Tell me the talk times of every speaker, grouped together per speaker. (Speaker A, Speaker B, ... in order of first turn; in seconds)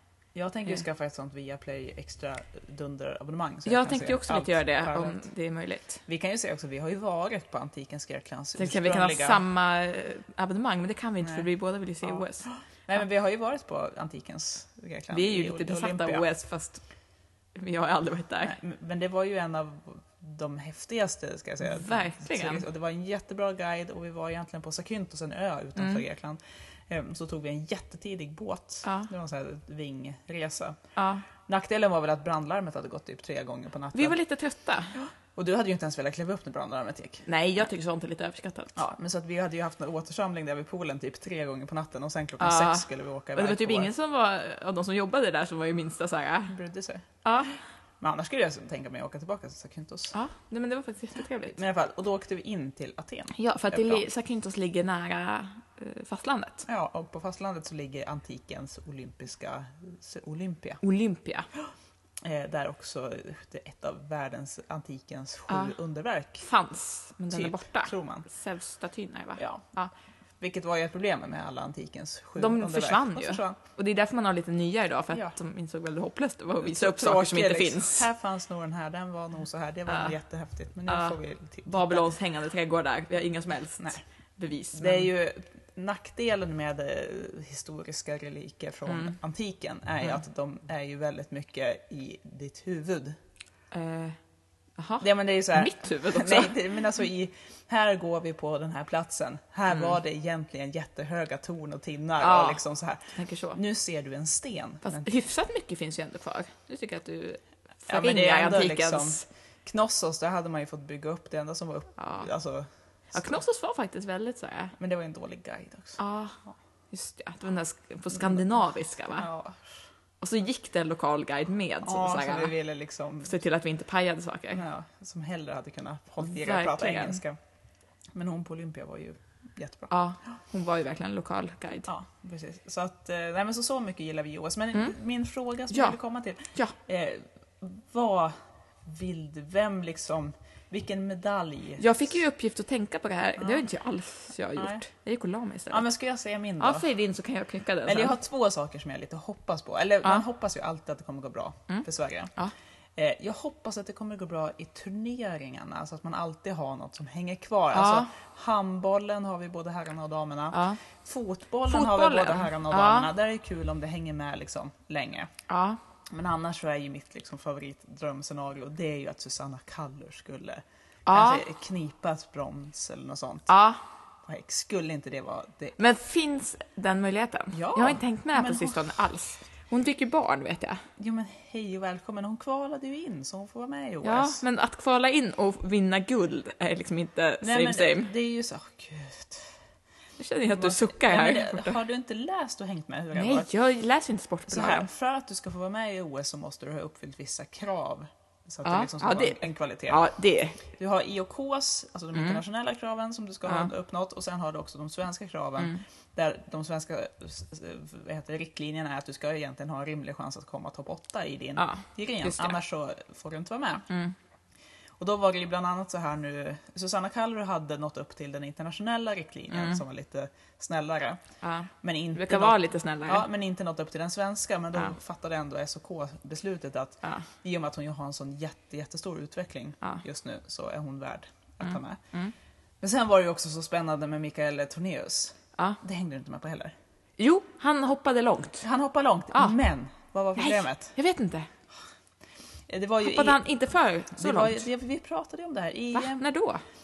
Speaker A: 0.3-5.2, 6.1-9.4, 11.2-11.5, 12.0-16.3, 18.4-30.8, 31.4-34.2, 35.4-37.3, 38.8-43.9, 46.5-47.0, 48.0-50.1, 51.5-54.0, 56.7-60.8, 62.2-66.5, 67.3-68.3, 69.4-69.7, 70.4-73.6, 76.6-82.1, 84.7-93.2, 95.0-105.1, 107.9-113.4, 114.8-116.0, 118.1-118.5, 119.2-119.6, 121.8-123.4, 124.5-127.4, 128.1-129.9, 131.9-138.3, 138.8-141.8, 143.4-143.7, 144.6-144.8, 145.7-146.9, 147.8-152.3, 153.0-165.3, 166.1-173.5, 174.2-175.8, 177.5-178.9, 181.0-184.4, 187.4-189.6, 190.5-193.5, 194.5-200.1, 200.7-213.9, 215.0-221.2, 221.8-232.0, 232.8-236.7, 238.6-240.9, 242.7-243.4, 244.1-246.2
Speaker B: 3.6-6.0, 8.6-12.5, 15.1-16.8, 17.6-18.6, 21.7-22.6, 25.8-26.0, 28.8-29.1, 31.0-31.3, 33.9-35.0, 37.3-38.8, 42.4-46.6, 47.2-47.6, 50.1-51.6, 53.4-56.7, 60.8-61.5, 65.5-65.8, 66.4-69.9, 72.4-78.1, 79.9-80.1, 80.9-81.2, 81.7-85.1, 88.9-89.2, 93.7-94.2, 94.8-96.6, 102.2-102.6, 103.1-103.6, 104.8-109.2, 112.0-112.3, 113.1-114.8, 116.0-116.4, 116.9-119.3, 120.2-122.5, 123.2-124.6, 126.2-127.2, 129.9-131.9, 135.7-136.0, 141.8-145.8, 146.6-148.2, 151.7-152.5, 157.7-158.1, 160.5-160.8, 161.7-163.1, 165.5-165.8, 171.1-171.4, 173.5-173.8, 175.8-180.8, 184.0-188.1, 190.2-191.8, 193.1-194.9, 198.7-200.6, 202.2-202.4, 211.6-212.6, 213.9-214.2, 219.5-219.8, 221.4-223.2, 231.6-232.3, 237.2-238.7, 239.3-239.6, 240.4-241.5, 243.0-244.7, 245.9-246.6